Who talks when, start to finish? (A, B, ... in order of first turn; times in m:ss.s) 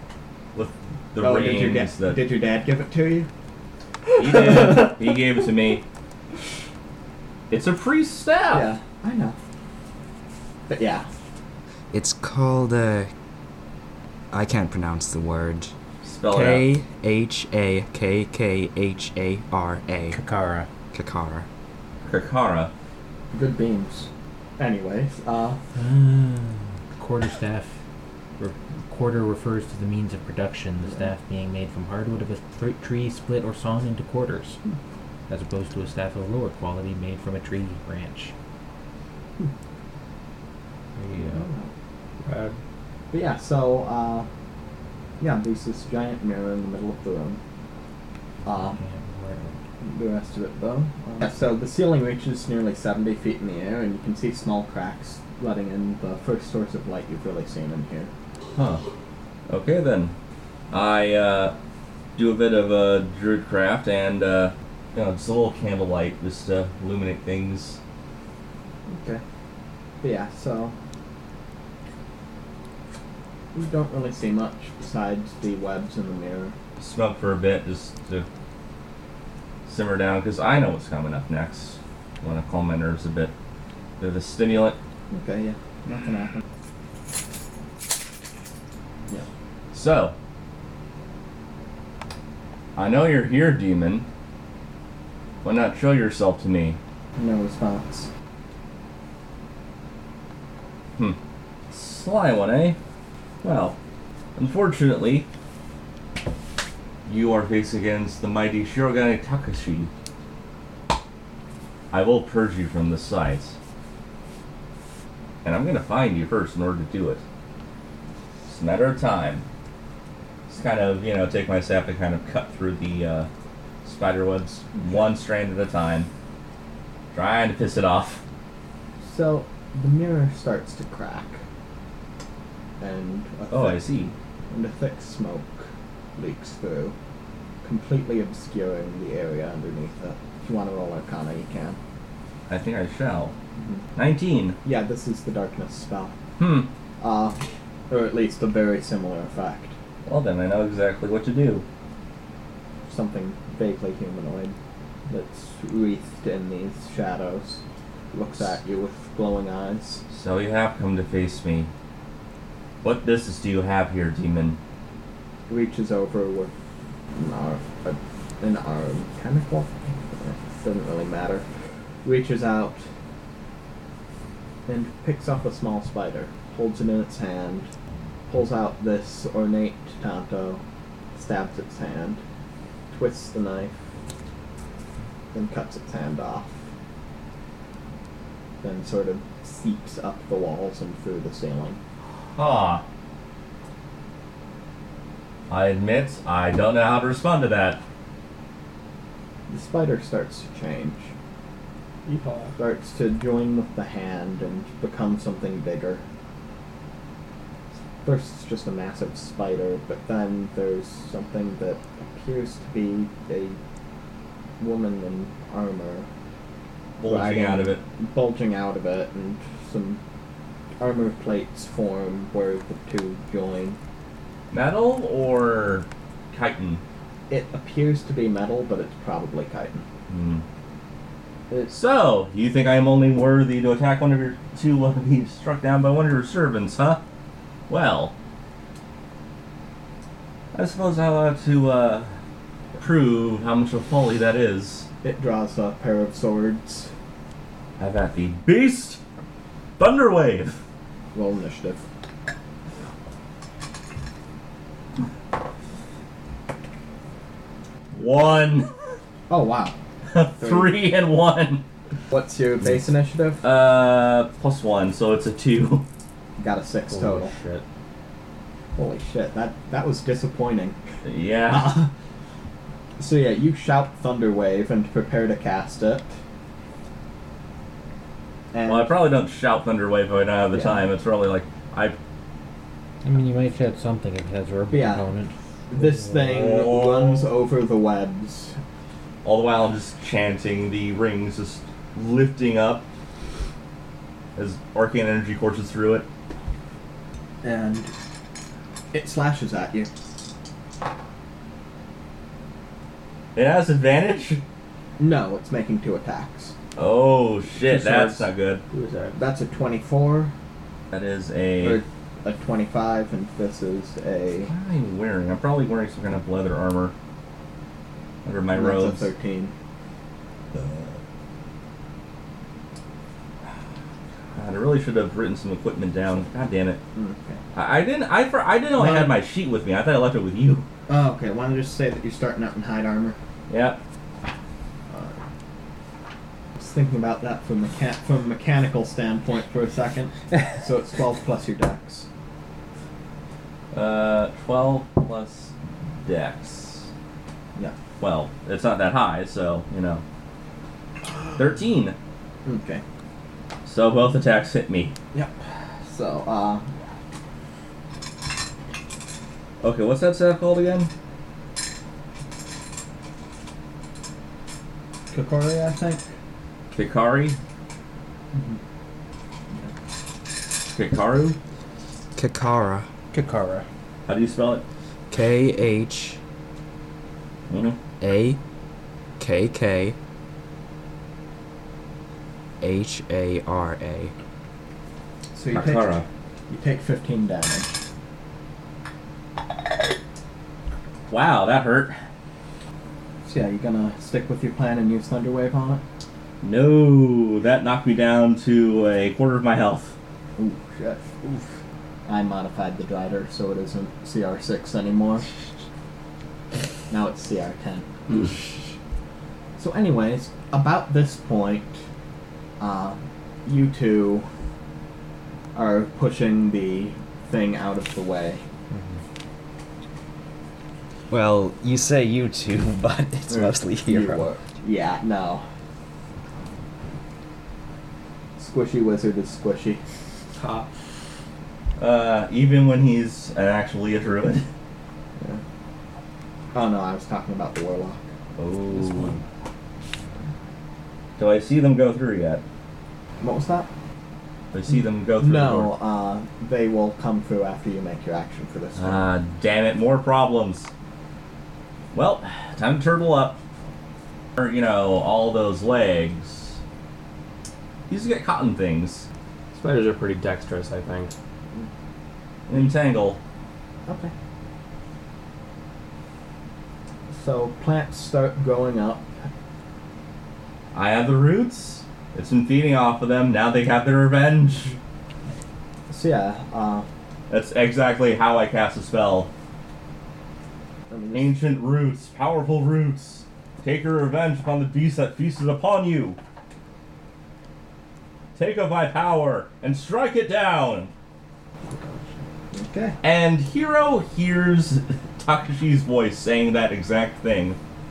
0:00.5-0:02.2 A
0:01.2-0:03.3 B
0:04.2-0:05.8 A
0:07.5-0:08.7 A
0:08.5-0:09.4 B
0:10.7-0:11.1 B
0:11.9-0:13.1 C
0:14.3-0:15.7 C
0:16.0-0:16.7 A
0:16.3-0:20.2 C
0:20.1-0:20.7 D
0:20.9-0:21.5 C
0:22.0-0:22.7 A
0:23.3-0:25.6 B
0:25.7-0:27.7 D
0:28.4-0:34.6 D
0:35.3-0:38.3 D
0:41.0-0:41.4 D
0:41.1-0:41.7 B
0:42.2-0:42.6 E
0:43.1-0:44.3 B
0:45.2-0:47.4 B
0:48.4-0:48.8 B
0:48.5-0:49.6 D
0:49.8-0:58.1 B
0:58.6-0:58.8 A
0:59.5-1:00.1 A
1:00.7-1:01.5 A
1:02.2-1:07.8 A
1:08.9-1:09.2 B
1:10.0-1:10.7 B
1:13.5-1:16.5 B
1:16.8-1:18.2 A
1:19.6-1:23.3 A
1:24.0-1:24.8 A
1:25.1-1:26.4 B
1:29.7-1:30.1 A
1:32.8-1:34.0 A
1:35.4-1:36.8 A
1:37.2-1:38.1 B
1:41.7-1:42.8 A
1:43.4-1:43.8 A
1:44.4-1:45.3 A
1:47.0-1:49.9 A
1:51.9-1:53.6 A
1:55.4-1:57.2 A
1:58.4-1:59.4 A
2:00.5-2:03.3 A
2:03.8-2:06.1 A
2:04.8-2:05.1 B
2:07.1-2:08.2 A
2:09.0-2:11.4 B
2:12.8-2:13.8 B
2:13.5-2:14.1 A
2:14.5-2:16.9 B
2:17.6-2:21.8 B
2:22.5-2:23.3 A
2:23.6-2:23.8 B
2:23.9-2:24.6 A
2:24.6-2:26.2 B
2:26.4-2:26.7 A
2:27.0-2:29.7 B
2:30.0-2:31.6 A
2:32.9-2:34.6 B
2:35.1-2:37.6 B
2:38.1-2:40.0 B
2:40.1-2:41.7 A
2:42.8-2:44.6 A
2:45.5-2:46.5 B
2:47.1-2:51.4 B
2:52.0-2:52.8 B
2:54.7-2:57.7 B
2:58.3-3:00.6 B
3:01.1-3:02.2 B
3:02.9-3:03.8 B
3:05.3-3:06.6 B
3:08.6-3:11.8 B
3:12.4-3:12.8 A
3:15.5-3:17.8 A
3:19.5-3:21.1 B
3:22.0-3:22.5 E
3:22.6-3:26.0 B
3:28.0-3:33.6 B
3:34.6-3:36.1 B
3:37.0-3:37.8 A
3:37.0-3:40.0 B
3:40.8-3:43.8 B
3:44.5-3:46.8 A
3:47.3-3:49.8 B
3:50.1-3:50.4 A
3:51.6-3:57.0 A
3:57.7-3:58.1 A
4:00.5-4:02.1 A
4:02.8-4:04.9 A
4:05.0-4:06.9 B
4:07.8-4:09.0 A
4:09.8-4:10.6 A
4:11.1-4:11.8 B
4:17.9-4:18.7 A
4:19.3-4:19.8 B
4:20.1-4:21.6 A
4:20.4-4:20.8 B
4:22.1-4:23.4 B
4:23.4-4:25.8 A
4:26.4-4:27.3 B
4:26.9-4:27.6 E
4:28.8-4:30.8 B
4:31.0-4:31.8 A
4:31.5-4:31.9 B
4:33.0-4:36.1 B
4:38.5-4:38.9 B
4:38.6-4:42.0 A
4:40.5-4:40.8 B
4:43.0-4:45.3 D
4:44.7-4:45.0 B
4:45.7-4:48.6 B
4:46.1-4:47.3 A
4:49.2-4:52.8 A
4:54.4-4:56.0 A
4:57.4-4:57.9 B
4:58.9-4:59.9 B
5:03.3-5:04.4 A
5:05.0-5:06.5 B
5:06.8-5:08.6 A
5:07.7-5:08.2 B
5:08.7-5:09.2 E
5:09.1-5:10.3 B
5:10.9-5:11.8 A
5:11.6-5:14.5 B
5:14.5-5:16.9 A
5:18.2-5:19.1 A
5:18.5-5:19.5 B
5:24.3-5:26.8 A
5:27.0-5:27.4 B
5:27.5-5:30.7 A
5:28.8-5:29.2 B
5:30.9-5:33.2 B
5:33.5-5:33.8 A
5:34.9-5:35.2 B
5:36.6-5:42.1 B
5:43.7-5:46.9 A
5:48.0-5:50.0 A
5:51.3-5:52.0 A
5:52.4-5:52.8 B
5:53.6-5:55.0 A
5:55.9-5:56.6 B
5:59.6-6:00.9 A
6:05.1-6:06.0 B
6:06.7-6:07.4 A
6:10.6-6:11.4 A
6:12.1-6:12.9 C
6:13.1-6:13.6 B
6:14.0-6:14.6 A
6:15.1-6:16.2 C
6:17.5-6:17.8 A
6:18.0-6:18.4 C
6:19.2-6:20.0 C
6:22.6-6:24.1 C
6:25.3-6:26.0 B
6:25.5-6:26.1 A
6:26.5-6:27.8 B
6:31.1-6:32.0 A
6:33.2-6:35.8 B
6:36.4-6:39.9 A
6:40.4-6:41.0 B
6:42.0-6:45.3 B
6:46.9-6:48.5 B
6:49.6-6:51.8 B
6:52.6-6:54.3 B
6:55.5-6:58.4 B
7:01.1-7:04.3 C
7:03.3-7:05.4 B
7:08.4-7:09.8 B
7:10.4-7:10.7 E
7:11.8-7:14.5 A
7:16.5-7:18.1 B
7:18.4-7:19.2 A
7:18.7-7:19.2 B
7:21.2-7:22.4 A
7:23.2-7:23.7 B
7:24.5-7:25.7 A
7:25.2-7:29.1 B
7:28.8-7:30.7 A
7:31.9-7:33.4 A
7:34.4-7:36.6 A
7:37.9-7:39.1 A
7:39.5-7:41.1 E
7:42.5-7:43.2 A
7:43.9-7:44.1 B
7:47.1-7:49.3 B
7:50.7-7:54.7 A
7:55.9-7:56.9 B
7:57.3-7:59.3 A
8:00.9-8:01.3 B
8:01.1-8:06.2 A
8:08.3-8:10.9 A
8:11.7-8:12.0 E
8:12.5-8:13.0 B
8:13.0-8:17.6 A